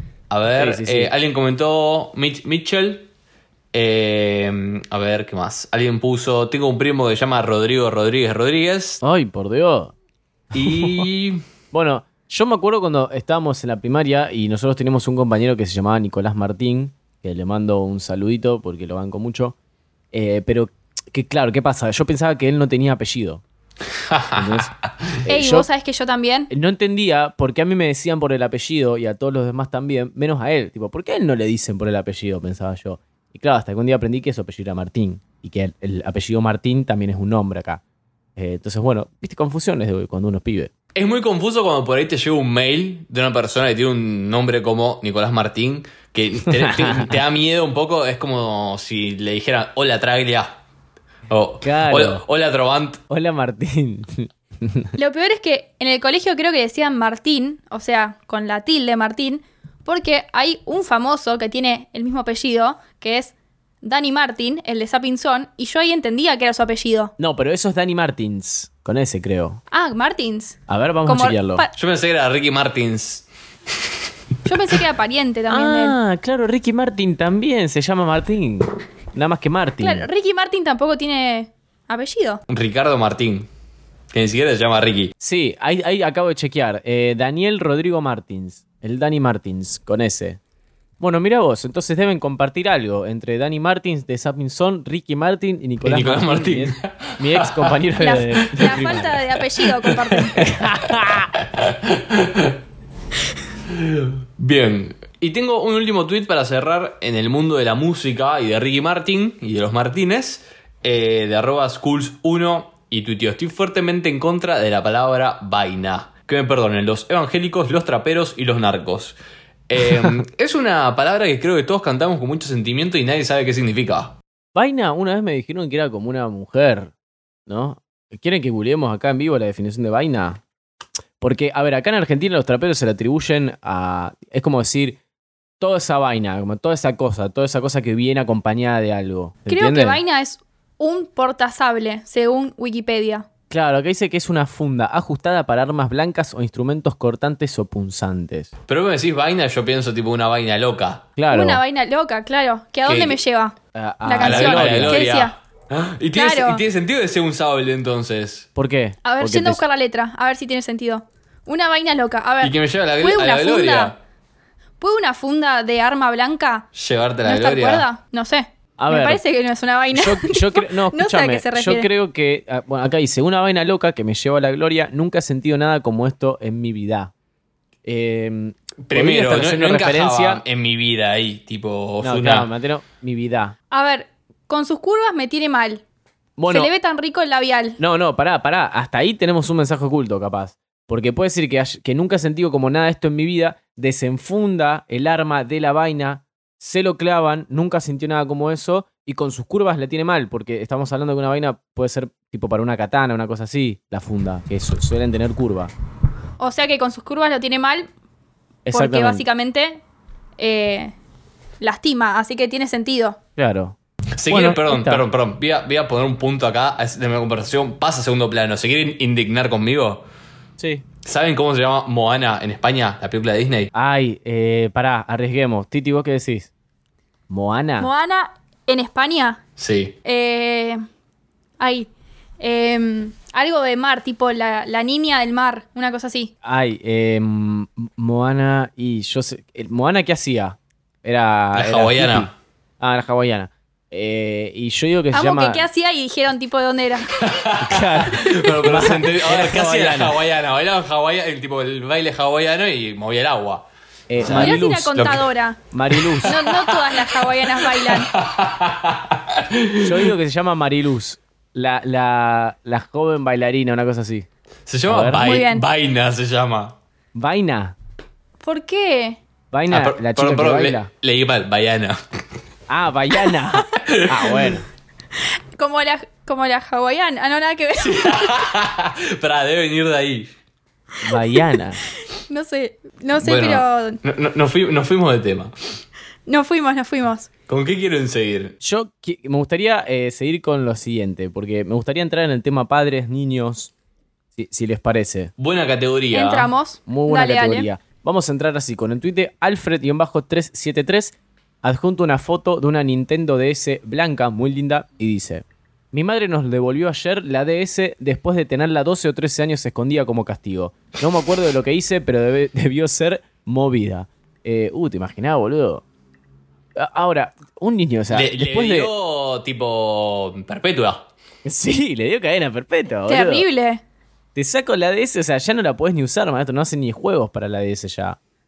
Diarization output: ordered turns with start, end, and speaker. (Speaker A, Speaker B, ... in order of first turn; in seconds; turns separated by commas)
Speaker A: 0.3-3.1, Speaker B: 0.5-1.1, Speaker A: 3.7-9.0, Speaker B: 9.0-9.9, Speaker A: 10.5-11.4, Speaker B: 10.5-11.1, Speaker B: 11.7-19.6, Speaker B: 20.1-23.4, Speaker A: 24.1-24.6, Speaker B: 24.3-25.7, Speaker C: 25.3-26.5, Speaker B: 26.5-37.8, Speaker B: 38.4-40.7, Speaker A: 40.9-50.5, Speaker B: 46.5-47.2, Speaker A: 51.3-53.0, Speaker B: 51.6-52.2, Speaker B: 53.1-54.9, Speaker C: 55.0-67.1, Speaker B: 67.2-69.6, Speaker C: 69.7-71.7, Speaker B: 70.7-71.6, Speaker A: 71.7-73.3, Speaker C: 74.4-76.0, Speaker B: 75.5-80.1, Speaker C: 79.8-82.4, Speaker A: 82.5-83.5, Speaker A: 84.1-85.1, Speaker B: 85.2-90.4, Speaker B: 91.0-99.2, Speaker A: 95.8-98.8, Speaker C: 98.0-100.4, Speaker B: 100.3-101.3, Speaker A: 101.4-102.5, Speaker A: 103.7-119.2, Speaker A: 119.7-124.2, Speaker B: 124.5-126.9, Speaker B: 127.5-130.4, Speaker B: 131.2-135.0, Speaker B: 135.6-140.0, Speaker C: 139.5-143.3, Speaker B: 143.5-148.5, Speaker A: 148.7-151.1, Speaker B: 151.2-151.6, Speaker C: 151.3-155.3, Speaker A: 152.8-153.2, Speaker B: 153.7-155.0, Speaker A: 154.2-158.5, Speaker C: 156.1-156.6, Speaker B: 158.6-159.6, Speaker C: 159.0-163.9, Speaker A: 162.4-164.0, Speaker C: 164.8-166.7, Speaker A: 166.7-167.8, Speaker C: 167.2-171.9, Speaker B: 168.8-169.2, Speaker B: 169.9-177.1, Speaker B: 177.8-180.4, Speaker A: 178.8-182.5, Speaker B: 182.0-183.6, Speaker C: 183.7-185.8, Speaker B: 186.4-186.7, Speaker C: 186.5-187.8, Speaker B: 187.8-205.7, Speaker C: 206.4-207.9, Speaker B: 208.6-209.2, Speaker C: 208.7-209.8, Speaker C: 210.4-210.9, Speaker C: 211.6-213.2, Speaker B: 213.4-213.8, Speaker A: 214.2-220.0, Speaker B: 214.3-215.1, Speaker B: 220.6-220.8, Speaker A: 221.0-223.7, Speaker B: 223.7-226.5, Speaker B: 227.3-227.9, Speaker C: 227.8-229.4, Speaker A: 229.6-229.9, Speaker C: 230.0-230.8, Speaker C: 231.6-231.9, Speaker C: 232.4-236.3, Speaker B: 236.4-245.6, Speaker A: 241.5-242.3, Speaker C: 245.1-247.1, Speaker A: 247.2-253.6, Speaker B: 247.6-250.2, Speaker B: 254.1-255.0, Speaker A: 254.2-255.3, Speaker C: 254.3-255.6, Speaker B: 255.7-256.4, Speaker A: 255.9-260.1, Speaker C: 256.2-258.1, Speaker B: 259.8-264.3, Speaker A: 264.7-266.8, Speaker B: 264.9-265.3, Speaker C: 265.1-265.6, Speaker B: 267.1-267.8, Speaker C: 268.4-269.2, Speaker B: 269.5-270.9, Speaker A: 269.7-272.0, Speaker B: 272.7-274.6, Speaker A: 273.8-274.5, Speaker C: 275.6-278.3, Speaker A: 277.8-280.3, Speaker B: 281.0-281.8, Speaker C: 282.3-284.0, Speaker A: 283.2-285.5, Speaker C: 286.3-287.3, Speaker A: 287.5-288.5, Speaker B: 288.6-293.7, Speaker B: 294.4-295.3, Speaker A: 295.4-296.5, Speaker C: 296.1-297.7, Speaker B: 296.9-315.8, Speaker B: 316.8-318.9, Speaker A: 318.1-321.1, Speaker B: 321.4-323.4, Speaker C: 323.1-323.8, Speaker B: 324.3-328.2